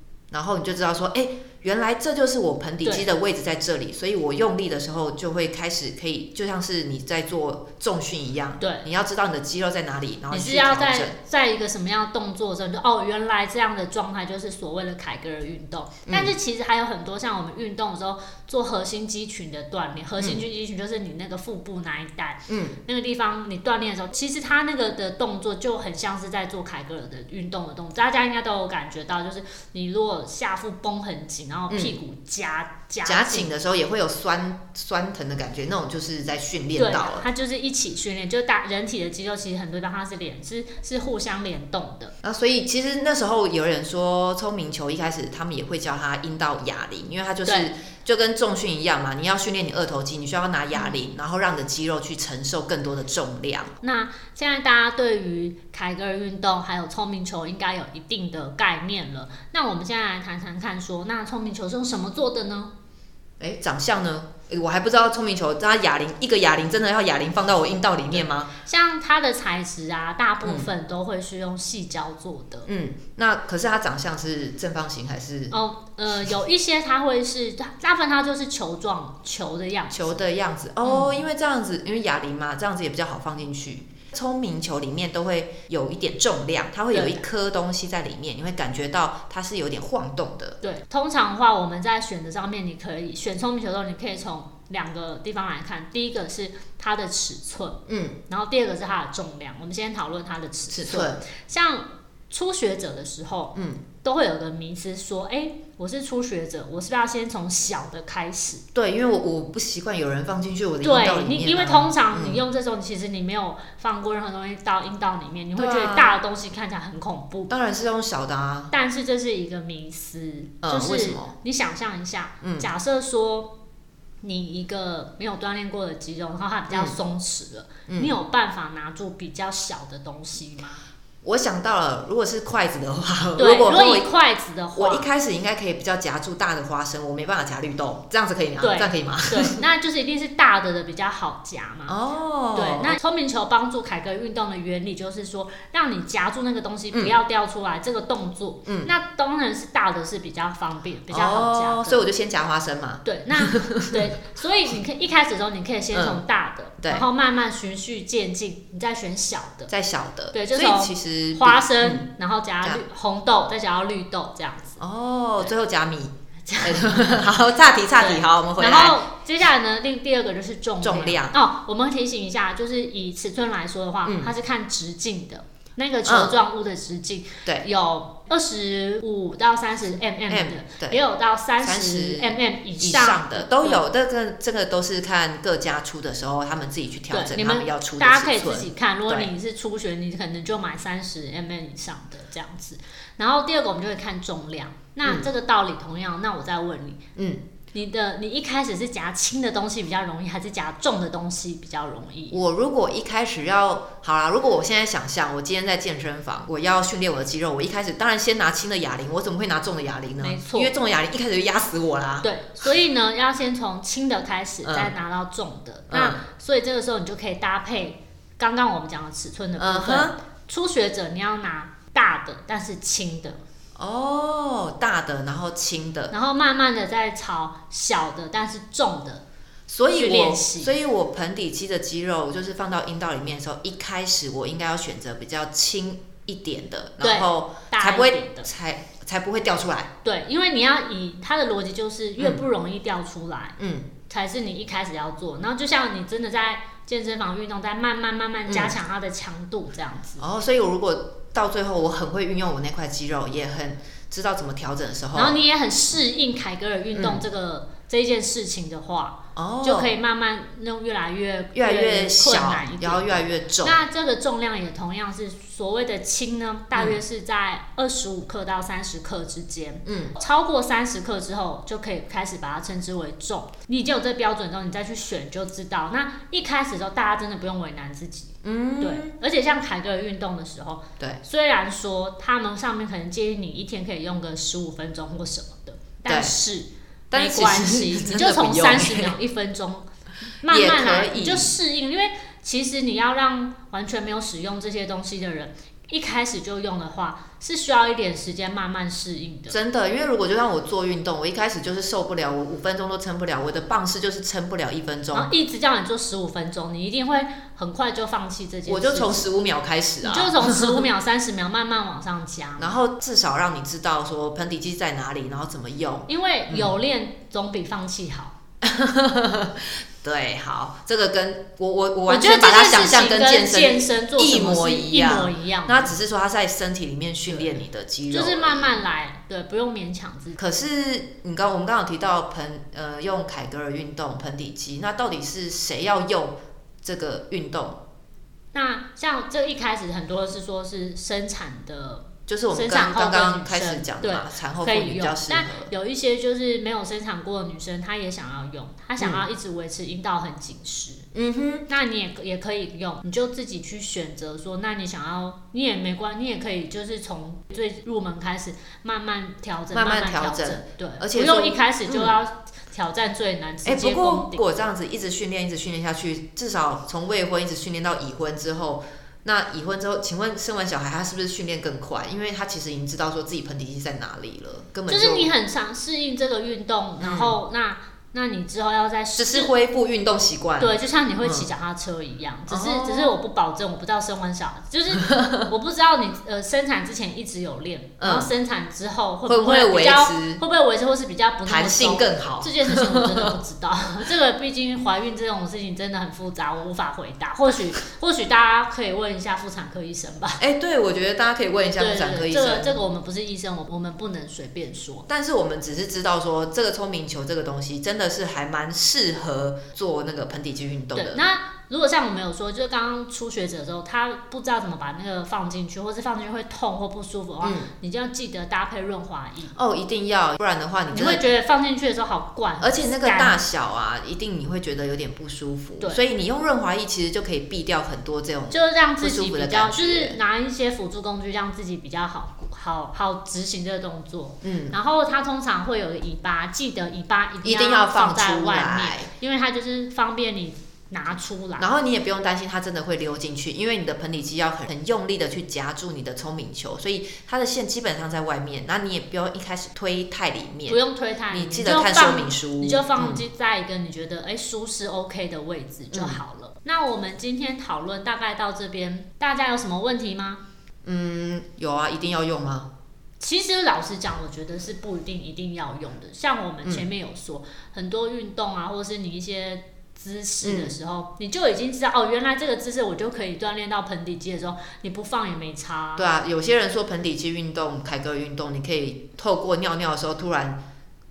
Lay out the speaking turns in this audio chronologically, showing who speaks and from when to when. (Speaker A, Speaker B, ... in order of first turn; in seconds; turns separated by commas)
Speaker A: 0.3-11.2, Speaker B: 8.6-8.8, Speaker B: 10.3-33.5, Speaker A: 16.1-16.3, Speaker A: 20.2-20.4, Speaker A: 22.5-22.8, Speaker A: 31.7-31.9, Speaker A: 33.0-37.2, Speaker B: 36.8-42.1, Speaker A: 42.2-53.7, Speaker B: 47.4-47.7, Speaker B: 53.8-62.7, Speaker A: 63.4-68.5, Speaker B: 68.1-72.7, Speaker A: 70.4-70.7, Speaker A: 72.7-75.5, Speaker B: 75.5-80.2, Speaker A: 79.9-90.6, Speaker B: 80.8-81.2, Speaker B: 86.9-87.2, Speaker B: 90.6-108.6, Speaker A: 97.9-98.2, Speaker A: 100.7-101.2, Speaker A: 103.5-103.8, Speaker A: 108.7-112.4, Speaker B: 110.8-117.5, Speaker A: 115.5-116.2, Speaker A: 117.5-118.7, Speaker B: 118.7-123.5, Speaker A: 120.6-121.3, Speaker A: 122.4-122.7, Speaker B: 124.2-130.8, Speaker A: 126.7-127.0, Speaker A: 127.9-128.1, Speaker A: 131.2-134.1, Speaker B: 133.4-135.1, Speaker A: 134.7-139.6, Speaker B: 138.6-141.9, Speaker A: 141.9-143.0, Speaker B: 142.5-152.0, Speaker A: 148.7-148.9, Speaker A: 151.1-154.1, Speaker B: 153.0-159.7, Speaker A: 155.9-156.2, Speaker A: 159.7-162.1, Speaker B: 160.3-164.8, Speaker A: 164.8-169.0, Speaker B: 166.4-167.3, Speaker B: 167.9-183.8, Speaker A: 170.8-171.4, Speaker A: 174.1-174.3, Speaker A: 176.0-176.3, Speaker A: 180.3-181.0, Speaker A: 181.6-189.3, Speaker B: 187.1-197.0, Speaker A: 197.2-197.4, Speaker B: 197.7-202.4, Speaker A: 202.3-212.3, Speaker B: 210.2-210.7, Speaker B: 212.2-223.4, Speaker A: 214.6-214.9, Speaker A: 215.9-216.2, Speaker A: 219.6-220.1, Speaker A: 223.8-226.1, Speaker B: 226.1-229.2, Speaker A: 229.7-239.9, Speaker B: 229.9-230.8, Speaker B: 237.0-238.5, Speaker B: 240.0-243.6, Speaker A: 243.6-243.9, Speaker B: 244.1-250.2, Speaker A: 248.5-248.8, Speaker A: 250.2-255.4, Speaker B: 255.1-289.9, Speaker A: 256.9-257.2, Speaker A: 259.3-259.9, Speaker A: 261.5-263.8, Speaker A: 269.9-270.1, Speaker A: 278.4-279.1, Speaker A: 286.1-286.3, Speaker A: 287.1-289.1, Speaker A: 290.4-291.6, Speaker B: 290.4-299.6, Speaker A: 299.5-305.3, Speaker B: 305.1-309.2, Speaker A: 308.6-310.9, Speaker B: 310.0-312.7, Speaker A: 312.6-316.8, Speaker B: 316.1-318.3, Speaker A: 318.6-328.8, Speaker B: 322.1-325.9, Speaker B: 327.3-330.4, Speaker A: 330.4-337.8, Speaker B: 338.5-351.1, Speaker A: 342.3-345.7, Speaker A: 349.0-349.2, Speaker A: 351.1-351.7, Speaker B: 351.7-364.4, Speaker A: 359.7-362.1, Speaker A: 363.6-375.3, Speaker B: 374.9-379.5, Speaker A: 377.0-377.4, Speaker A: 379.2-381.5, Speaker B: 380.6-400.4, Speaker A: 382.5-383.2, Speaker A: 385.0-385.4, Speaker A: 388.0-388.3, Speaker A: 389.2-390.4, Speaker A: 391.4-393.3, Speaker A: 400.4-402.8, Speaker B: 401.8-405.1, Speaker A: 405.1-411.2, Speaker B: 410.9-419.5, Speaker A: 417.4-417.7, Speaker A: 419.5-421.2, Speaker B: 420.9-423.4, Speaker A: 422.6-430.2, Speaker B: 428.5-441.7, Speaker A: 434.4-434.8, Speaker A: 437.4-439.1, Speaker A: 441.6-450.8, Speaker B: 450.7-460.4, Speaker A: 451.3-453.2, Speaker A: 455.9-456.2, Speaker A: 460.8-462.7, Speaker B: 463.2-476.1, Speaker A: 470.4-470.7, Speaker A: 476.0-480.6